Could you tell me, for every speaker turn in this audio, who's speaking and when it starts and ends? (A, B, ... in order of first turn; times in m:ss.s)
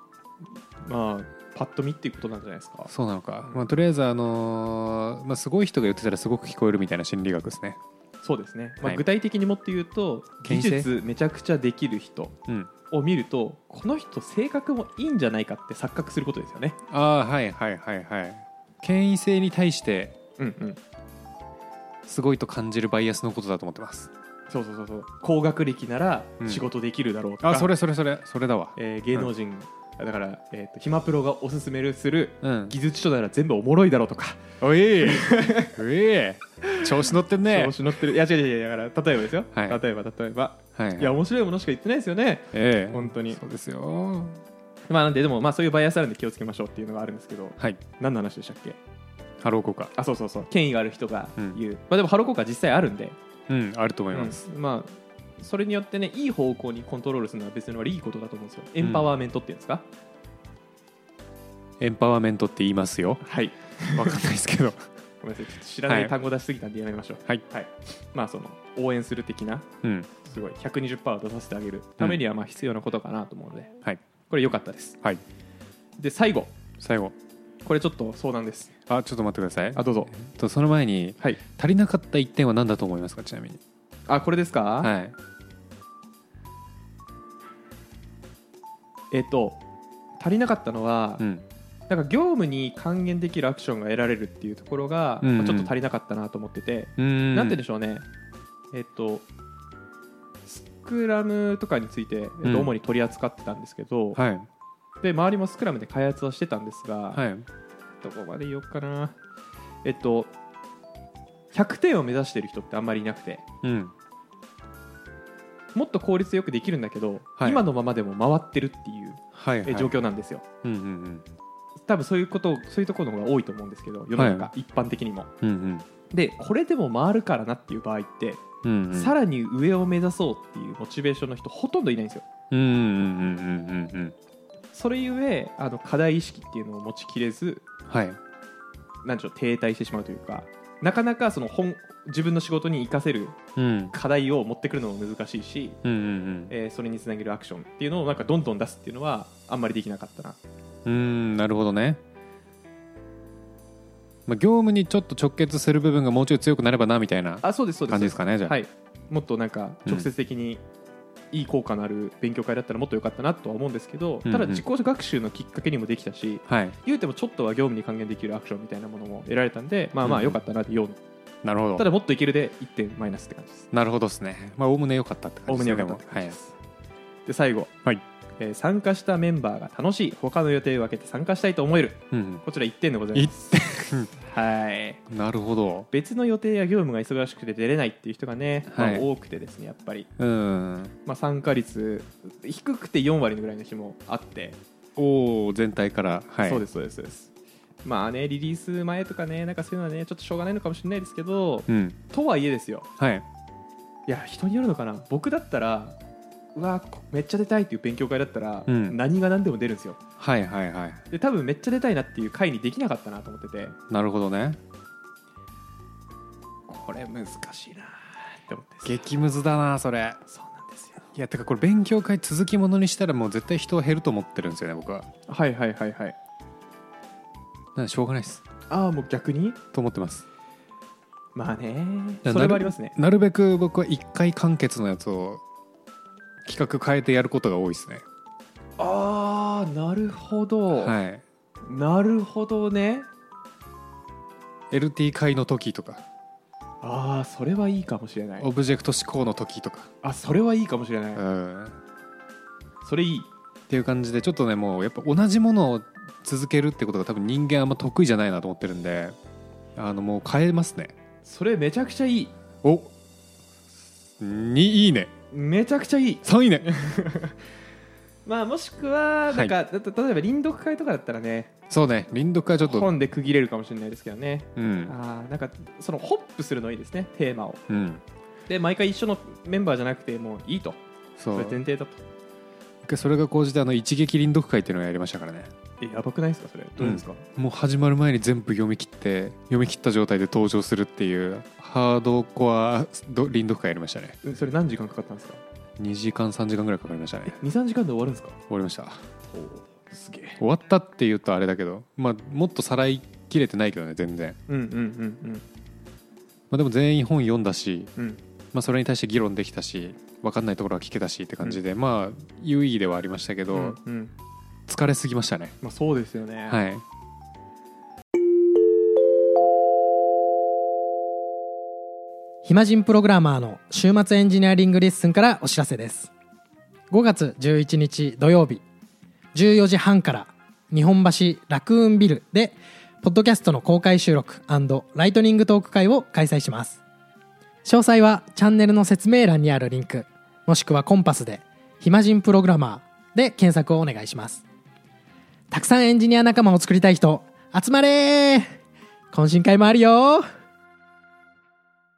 0:00.8-0:02.9 A
0:02.9-0:07.8 B
0:08.2-0:12.4 A
0:10.4-0:10.9 B
0:12.9-0:16.8 A
0:16.9-0:20.2 B
0:20.4-0:20.8 A
0:22.1-0:24.1 B
0:24.5-0:27.7 A
0:27.4-0:29.3 B
0:28.8-0:35.8 A
0:32.4-0:32.7 B
0:34.6-0:37.8 B
0:37.4-0:43.4 A
0:39.5-0:39.8 B
0:40.8-0:41.2 B
0:42.5-0:44.4 B
0:44.9-0:48.8 A
0:49.4-0:49.9 B
0:50.0-0:53.2 A
0:53.5-0:54.4 B
0:54.1-0:59.8 A
0:58.8-0:59.1 B
1:01.8-1:03.2 B
1:03.2-1:04.2 A
1:03.9-1:04.8 B
1:05.2-1:13.7 A
1:05.9-1:06.1 B
1:09.8-1:10.1 B
1:14.3-1:15.0 A
1:16.0-1:16.5 A
1:16.8-1:17.2 B
1:17.6-1:18.7 A
1:18.9-1:23.6 B
1:19.8-1:20.1 A
1:24.1-1:24.9 A
1:24.8-1:25.2 B
1:29.1-1:29.6 A
1:30.2-1:31.2 A
1:31.2-1:31.4 B
1:31.9-1:38.1 A
1:35.2-1:35.7 B
1:37.0-1:37.6 B
1:38.7-1:39.2 A
1:40.5-1:44.2 A
1:42.4-1:42.7 B
1:44.2-1:44.5 B
1:45.0-1:47.2 A
1:47.1-1:47.5 B
1:48.0-1:49.2 A
1:49.8-1:50.3 A
1:51.5-1:53.4 A
1:53.6-1:53.9 B
1:55.8-2:00.4 A
1:57.4-1:57.6 B
1:59.3-2:00.0 B
2:00.6-2:01.3 B
2:01.9-2:05.3 A
2:04.2-2:04.5 B
2:05.4-2:05.8 B
2:06.1-2:12.2 A
2:08.6-2:09.2 B
2:12.5-2:14.2 B
2:14.7-2:17.6 A
2:17.9-2:18.2 B
2:19.0-2:23.4 A
2:23.6-2:23.9 B
2:23.9-2:25.8 A
2:25.8-2:26.5 B
2:26.5-2:30.4 A
2:30.8-2:32.0 B
2:34.3-2:38.6 B
2:37.4-2:40.6 A
2:41.3-2:51.0 A
2:44.2-2:44.6 B
2:46.5-2:46.8 B
2:50.0-2:50.4 B
2:51.4-2:51.9 B
2:51.8-2:53.7 A
2:53.7-2:56.4 B
2:55.5-2:56.5 A
2:57.3-2:57.7 A
2:58.4-3:03.6 A
3:02.1-3:02.4 B
3:03.1-3:04.1 B
3:04.1-3:05.0 A
3:05.1-3:05.9 B
3:05.9-3:10.1 A
3:08.7-3:09.1 B
3:10.2-3:10.9 B
3:11.0-3:14.6 A
3:15.0-3:16.7 B
3:16.4-3:17.3 A
3:17.8-3:22.9 A
3:21.7-3:22.0 B
3:23.0-3:23.3 B
3:24.1-3:26.0 A
3:26.6-3:30.0 A
3:28.7-3:29.0 B
3:30.2-3:31.0 B
3:31.1-3:33.8 A
3:33.9-3:34.6 B
3:36.7-3:39.0 A
3:38.8-3:40.2 B
3:40.3-3:41.0 A
3:41.1-3:45.1 B
3:45.3-3:46.2 A
3:47.8-3:48.4 B
3:48.7-3:49.6 A
3:49.7-3:50.2 B
3:51.4-3:53.0 A
3:52.2-3:55.4 B
3:56.4-3:58.0 B
3:58.8-4:00.9 A
4:00.7-4:01.2 B
4:01.7-4:03.1 A
4:04.7-4:06.0 B
4:06.8-4:08.5 A
4:08.4-4:09.9 B
4:10.0-4:11.2 A
4:11.2-4:11.8 B
4:12.8-4:13.3 A
4:13.7-4:19.2 B
4:19.8-4:20.9 B
4:21.2-4:22.3 A
4:22.6-4:22.9 B
4:24.2-4:25.1 B
4:25.3-4:27.4 A
4:26.2-4:26.7 B
4:28.3-4:31.5 A
4:31.7-4:32.9 B
4:32.6-4:37.6 A
4:34.6-4:34.9 B
4:37.7-4:38.0 B
4:38.5-4:40.8 A
4:41.2-4:41.6 B
4:41.3-4:42.0 A
4:42.8-4:45.5 B
4:45.8-4:47.2 A
4:46.8-4:54.2 B
4:54.2-4:55.4 A
4:55.8-4:57.4 B
4:57.3-4:58.4 A
4:58.5-4:59.0 B
4:59.3-5:00.4 A
5:00.4-5:04.4 B
5:04.5-5:05.4 A
5:06.5-5:07.9 B
5:08.0-5:08.2 A
5:08.5-5:13.8 B
5:13.5-5:14.1 A
5:14.7-5:15.6 B
5:15.6-5:16.6 A
5:16.5-5:16.8 B
5:22.4-5:26.1 C
5:26.9-5:28.6 C
5:29.3-5:36.8 C
5:37.6-5:44.4 C
5:45.5-5:48.5 C
5:49.1-5:50.3 C